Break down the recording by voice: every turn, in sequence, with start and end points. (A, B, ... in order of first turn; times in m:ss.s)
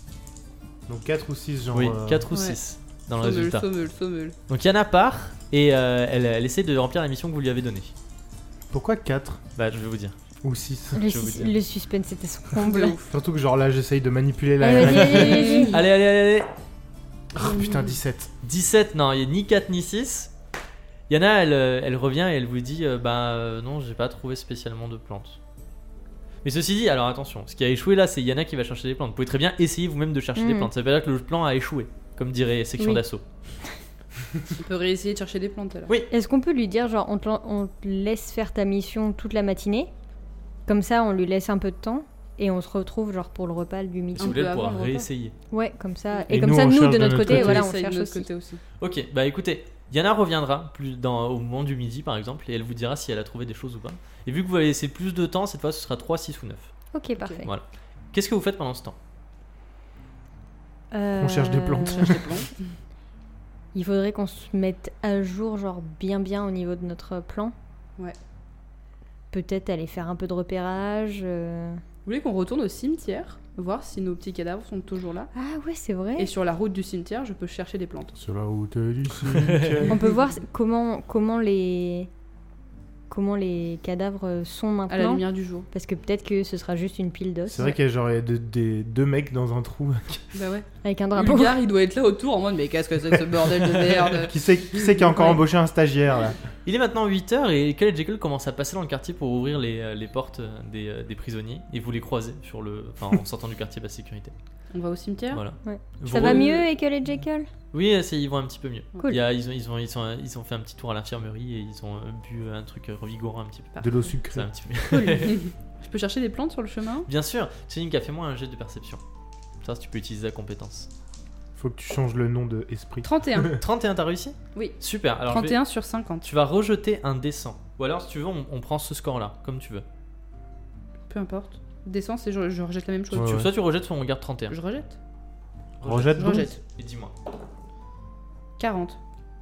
0:00.9-0:02.2 A
0:01.7-0:03.6 B
0:02.3-0:02.6 C
0:03.2-0:04.4 C
0:04.5-0:07.9 B
0:08.7-0:09.4 A
0:09.6-0:10.2 B
0:10.4-0:11.1 A
0:10.9-0:13.0 D
0:11.1-0:11.5 B
0:12.6-0:13.1 C
0:13.1-0:15.5 A
0:14.6-0:15.8 D
0:15.0-0:15.8 C
0:15.7-0:16.5 B
0:17.3-0:18.3 A
0:17.4-0:18.0 C
0:18.4-0:20.3 B
0:21.1-0:25.4 B
0:26.4-0:33.2 B
0:30.4-0:30.7 D
0:34.5-0:35.9 C
0:36.1-0:39.9 D
0:40.7-0:44.4 D
0:44.1-0:45.3 B
0:44.2-0:45.1 C
0:45.5-0:48.3 D
0:46.3-0:47.7 A
0:47.0-0:48.6 C
0:48.8-0:56.7 B
0:56.9-0:57.5 D
0:57.2-0:57.4 C
0:57.4-0:59.0 B
1:00.9-1:02.2 D
1:01.2-1:02.4 A
1:01.8-1:02.5 C
1:03.7-1:07.5 D
1:09.3-1:11.8 D
1:12.0-1:15.3 C
1:15.3-1:16.3 D
1:16.2-1:18.2 C
1:18.2-1:20.0 A
1:19.4-1:19.8 B
1:19.9-1:22.1 D
1:19.9-1:20.2 C
1:23.1-1:27.7 D
1:24.9-1:25.7 C
1:27.5-1:30.2 A
1:30.3-1:35.4 C
1:30.8-1:31.6 D
1:34.2-1:36.4 A
1:36.6-1:44.3 B
1:44.7-1:45.4 C
1:45.3-1:46.6 B
1:45.6-1:47.5 D
1:46.1-1:46.6 C
1:47.7-1:55.4 B
1:53.8-1:54.5 A
1:54.9-1:55.3 D
1:55.2-1:57.1 C
1:57.1-1:59.0 B
1:59.6-2:00.9 B
2:01.6-2:03.6 A
2:03.0-2:03.6 C
2:03.6-2:05.6 B
2:04.5-2:06.3 C
2:06.2-2:09.8 B
2:11.1-2:13.4 C
2:13.1-2:13.5 A
2:13.1-2:14.6 B
2:14.5-2:14.9 C
2:15.8-2:17.1 B
2:15.8-2:16.5 A
2:16.2-2:16.6 C
2:18.6-2:19.0 C